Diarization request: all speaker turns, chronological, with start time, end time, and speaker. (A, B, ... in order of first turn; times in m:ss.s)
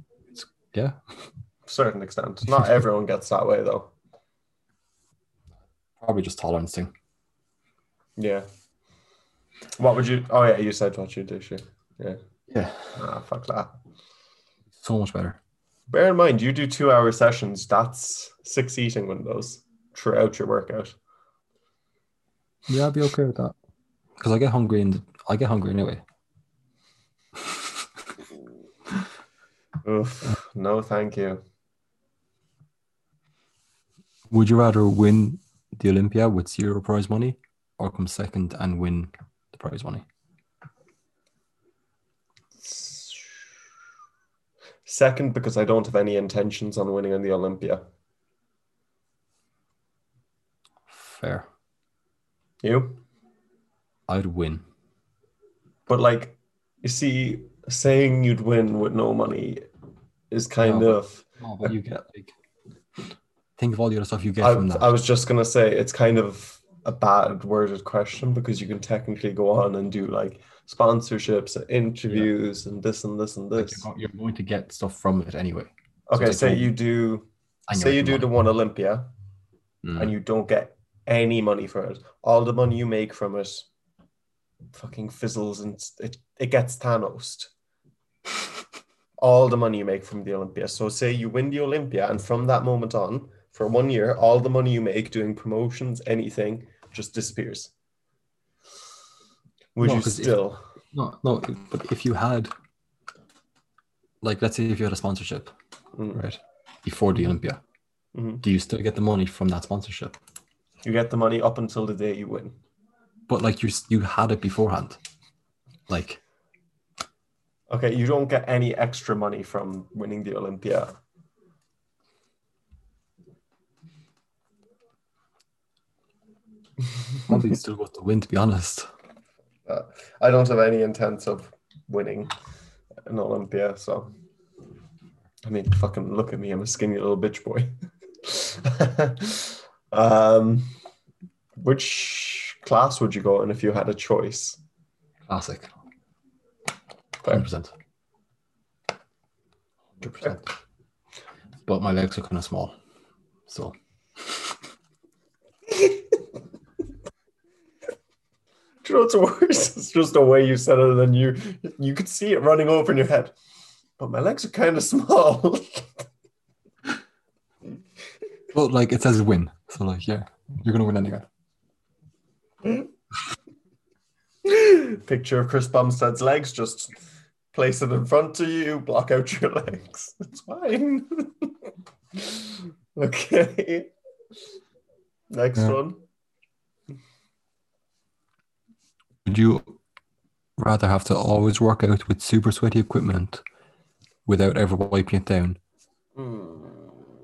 0:00.3-0:01.0 A
0:01.7-0:03.9 B
0:06.0-0:06.9 A
0:08.2-0:08.4 B
0:09.8-0:12.2 B
0:12.5-0:13.0 A
0:13.0-0:13.7 B
0:14.7-0:15.4 A
0:15.9-0:21.0 B
0:22.7-0:23.5 A
0:24.2-0:26.0 A
0:27.4-0:27.8 A
0:29.8-0:31.4 B
0:34.3-0:40.0 A
0:42.6-0:43.5 B
0:44.8-0:47.8 B
0:50.9-0:51.5 A
0:52.6-0:53.0 B
0:54.1-0:54.6 A
0:55.9-0:59.6 B
1:00.3-1:01.7 B
1:00.6-1:02.3 A
1:03.6-1:05.0 A
1:04.4-1:13.9 B
1:13.6-1:16.7 A
1:16.1-1:19.1 B
1:17.7-1:18.3 A
1:19.8-1:20.1 A
1:19.9-1:23.7 B
1:24.7-1:27.5 B
1:29.2-1:37.7 B
1:39.8-1:40.6 B
1:39.8-1:42.5 A
1:44.2-1:45.5 A
1:46.0-1:46.2 B
1:46.1-1:47.6 A
1:48.1-1:48.4 B
1:48.4-1:50.2 A
1:50.8-1:52.6 B
1:53.3-1:55.0 A
1:55.9-1:56.2 A
1:57.7-2:00.9 B
2:07.3-2:08.9 A
2:09.7-2:12.3 B
2:13.0-2:14.1 B
2:15.4-2:20.7 B
2:21.6-2:24.6 B
2:25.3-2:25.7 A
2:27.3-2:27.7 A
2:30.0-2:30.5 A
2:30.0-2:30.4 B
2:31.6-2:32.8 A
2:33.5-2:34.6 A
2:35.7-2:36.0 B
2:38.8-2:43.3 B
2:44.0-2:46.0 B
2:48.5-2:51.3 A
2:54.4-2:56.9 B
2:57.5-3:01.5 B
3:02.1-3:03.9 B
3:05.3-3:06.0 B
3:09.2-3:09.8 A
3:10.6-3:13.4 A
3:14.2-3:15.6 A
3:16.2-3:17.0 B